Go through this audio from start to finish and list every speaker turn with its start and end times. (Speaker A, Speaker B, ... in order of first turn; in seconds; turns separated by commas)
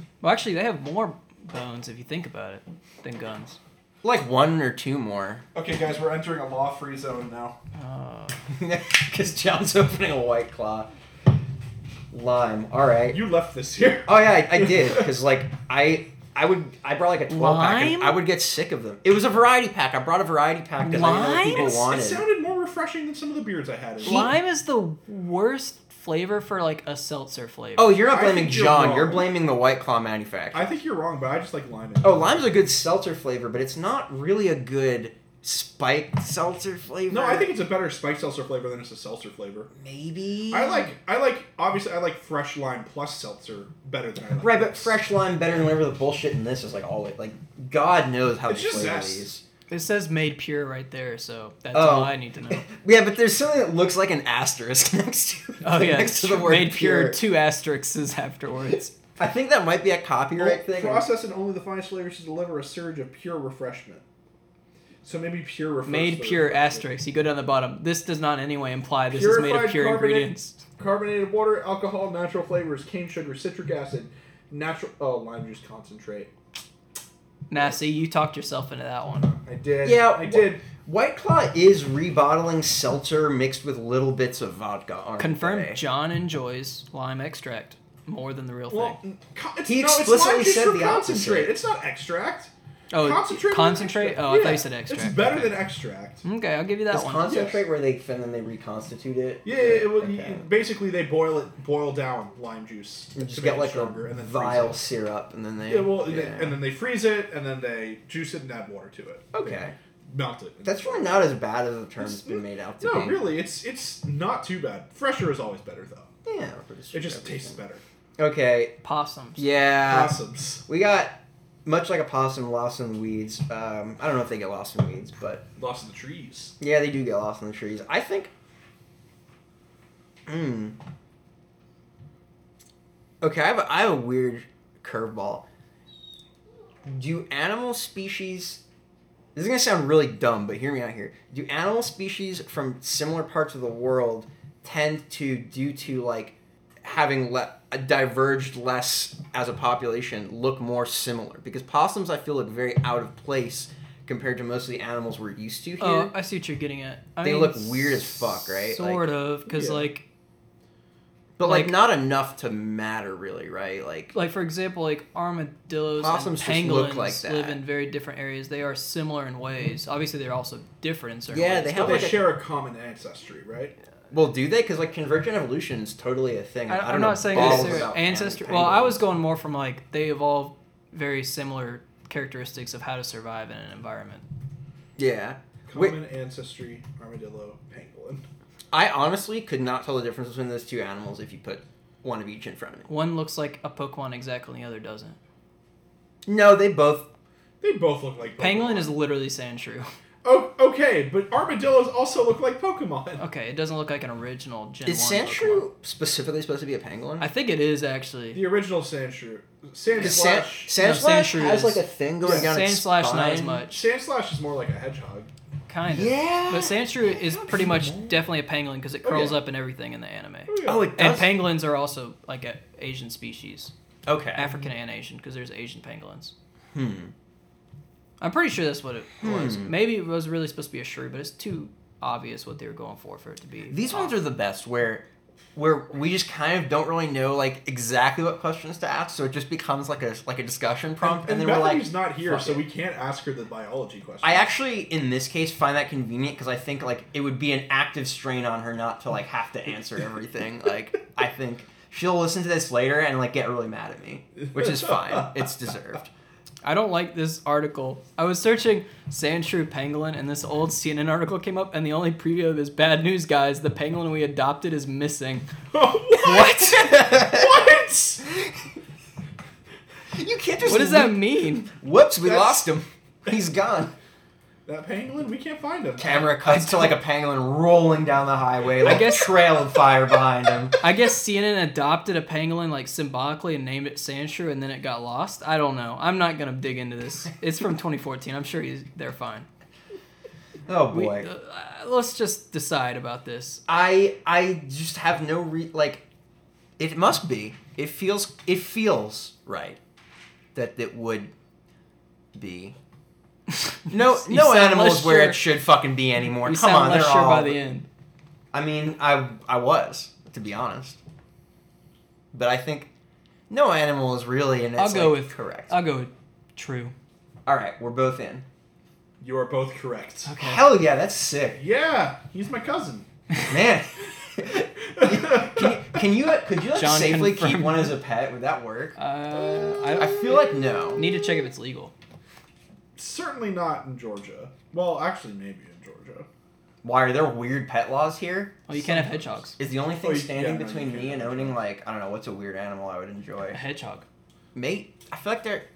Speaker A: 0.2-3.6, Speaker B: 4.0-5.4, Speaker C: 5.5-7.6, Speaker A: 7.8-8.4, Speaker B: 8.5-10.9, Speaker B: 12.1-13.2, Speaker C: 13.1-15.1, Speaker B: 14.1-22.2, Speaker A: 17.3-18.2, Speaker A: 20.8-21.7, Speaker C: 21.0-24.3, Speaker A: 24.0-28.0, Speaker B: 24.1-24.3, Speaker B: 27.8-30.7, Speaker C: 28.1-29.3, Speaker C: 30.5-32.4, Speaker B: 32.0-37.5, Speaker C: 37.1-39.7, Speaker B: 39.8-40.9, Speaker C: 40.5-45.0, Speaker B: 44.4-49.4, Speaker C: 48.5-49.3, Speaker A: 49.7-52.6, Speaker B: 51.7-57.2, Speaker A: 55.6-58.9, Speaker B: 58.7-61.1, Speaker C: 60.4-64.0, Speaker C: 65.0-66.8, Speaker A: 65.9-70.6, Speaker C: 69.1-76.3, Speaker A: 77.5-79.4, Speaker C: 79.4-80.6, Speaker B: 79.8-85.8, Speaker A: 85.2-89.0, Speaker C: 88.7-96.2, Speaker B: 89.7-91.6, Speaker A: 92.9-95.6, Speaker A: 96.2-97.3, Speaker B: 96.9-100.5, Speaker C: 97.2-97.6, Speaker C: 99.4-104.8, Speaker B: 103.1-106.6, Speaker C: 105.7-109.6, Speaker B: 109.3-109.8, Speaker C: 110.1-111.3, Speaker B: 110.6-113.3, Speaker C: 112.0-116.1, Speaker B: 116.2-117.6, Speaker C: 116.9-117.8, Speaker B: 118.2-118.8, Speaker A: 118.8-119.5, Speaker B: 119.4-125.5, Speaker C: 119.8-120.6, Speaker C: 125.6-126.5, Speaker B: 126.6-128.3, Speaker B: 130.3-130.8, Speaker B: 133.2-135.5, Speaker B: 136.8-138.6, Speaker B: 139.3-156.1, Speaker A: 155.8-160.0, Speaker B: 157.2-159.1, Speaker C: 159.5-159.9, Speaker B: 161.4-164.1, Speaker A: 161.4-161.8, Speaker A: 164.1-172.1, Speaker B: 166.0-167.6, Speaker B: 171.3-172.2, Speaker C: 171.7-173.8, Speaker B: 174.1-179.1, Speaker A: 176.7-184.3, Speaker C: 177.3-177.9, Speaker B: 185.0-186.0, Speaker C: 185.7-188.2, Speaker B: 188.7-192.9, Speaker A: 192.9-195.2, Speaker B: 196.3-197.1, Speaker C: 197.6-198.9, Speaker A: 198.4-199.9, Speaker C: 200.2-203.2, Speaker A: 203.2-205.7, Speaker B: 204.8-207.3, Speaker A: 207.2-208.4, Speaker C: 208.3-210.7, Speaker B: 210.0-213.6, Speaker A: 210.8-213.9, Speaker C: 212.2-212.5, Speaker C: 213.7-215.3, Speaker A: 215.7-223.7, Speaker B: 215.9-216.9, Speaker C: 217.2-218.3, Speaker C: 219.0-219.4, Speaker C: 220.5-220.9, Speaker B: 220.6-221.4, Speaker B: 224.1-224.6, Speaker A: 224.4-226.3, Speaker B: 226.7-227.1, Speaker A: 228.2-234.2, Speaker B: 229.2-229.8, Speaker B: 233.7-242.6, Speaker C: 241.0-244.5, Speaker B: 244.2-256.1, Speaker A: 256.6-265.5, Speaker C: 265.7-268.3, Speaker B: 266.2-267.6, Speaker A: 266.2-266.7, Speaker B: 268.3-268.5, Speaker B: 270.1-273.9, Speaker A: 270.6-271.7, Speaker C: 272.2-272.8, Speaker C: 274.6-276.3, Speaker B: 276.0-280.8, Speaker A: 278.8-279.2, Speaker A: 280.8-289.5, Speaker B: 290.7-291.3, Speaker A: 290.9-293.6, Speaker B: 293.7-296.1, Speaker B: 296.8-299.8, Speaker B: 300.6-301.3, Speaker B: 302.4-302.8, Speaker A: 303.7-305.5, Speaker B: 303.9-307.6, Speaker A: 306.4-307.9, Speaker B: 308.5-311.0, Speaker B: 312.3-312.9, Speaker B: 313.5-315.8, Speaker A: 314.8-316.9, Speaker B: 317.5-318.4, Speaker C: 319.2-320.3, Speaker A: 320.3-320.6, Speaker B: 320.4-321.6, Speaker C: 321.6-323.1, Speaker B: 323.5-329.0, Speaker C: 324.5-326.0, Speaker A: 326.8-328.0, Speaker A: 329.0-330.3, Speaker B: 330.0-331.0, Speaker A: 331.0-331.9, Speaker C: 333.0-336.3, Speaker B: 336.8-338.6, Speaker A: 338.7-339.6, Speaker C: 338.7-339.4, Speaker B: 339.6-343.6, Speaker C: 340.0-341.6, Speaker A: 343.5-344.1, Speaker B: 344.5-345.7